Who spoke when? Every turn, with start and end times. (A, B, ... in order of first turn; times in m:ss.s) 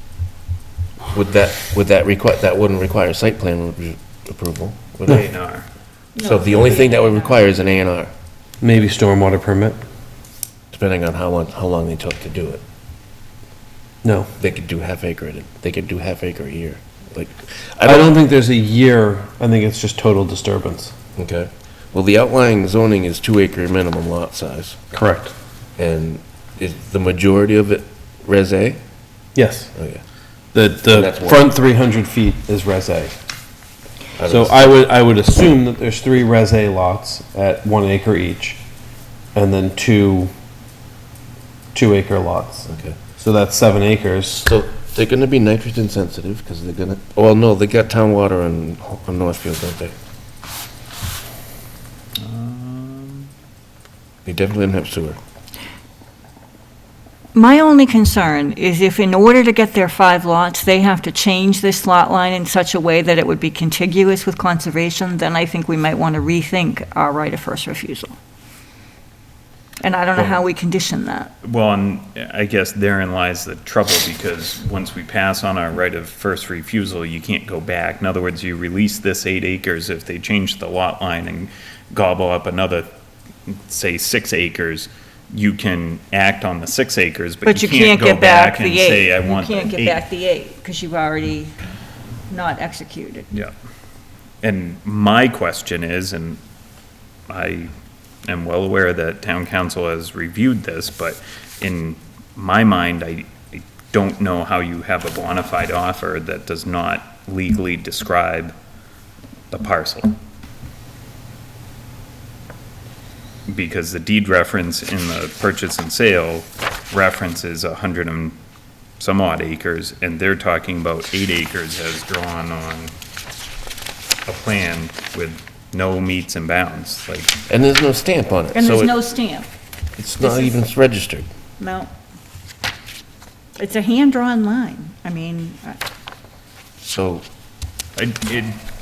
0:01.1-0:05.2 A
0:05.1-0:05.7 B
0:06.2-0:07.5 C
0:06.2-0:08.1 A
0:08.6-0:09.8 D
0:10.7-0:12.6 A
0:14.0-0:14.3 D
0:14.4-0:18.1 A
0:17.8-0:20.9 D
0:21.2-0:24.8 A
0:24.9-0:25.3 D
0:25.8-0:28.8 A
0:29.4-0:29.7 D
0:29.8-0:30.0 A
0:30.5-0:33.2 D
0:30.9-0:31.5 A
0:34.2-0:34.6 A
0:34.2-0:38.6 D
0:39.4-0:40.3 D
0:41.7-0:44.5 D
0:42.7-0:43.0 A
0:44.4-0:50.0 A
0:52.2-0:53.3 B
0:54.2-0:55.2 A
0:57.3-1:08.2 C
1:09.8-1:11.3 C
1:11.4-1:22.9 B
1:23.5-1:30.0 B
1:27.4-1:31.6 C
1:32.3-1:33.3 C
1:34.4-1:36.4 B
1:37.3-1:37.7 B
1:38.2-1:48.6 B
1:49.5-1:50.1 B
1:53.5-1:58.4 B
1:59.0-2:02.9 B
2:04.3-2:07.4 B
2:07.5-2:08.9 A
2:08.5-2:09.5 C
2:10.0-2:11.3 A
2:10.2-2:10.6 C
2:11.6-2:11.9 C
2:13.6-2:15.8 C
2:16.8-2:17.2 A
2:18.0-2:18.6 B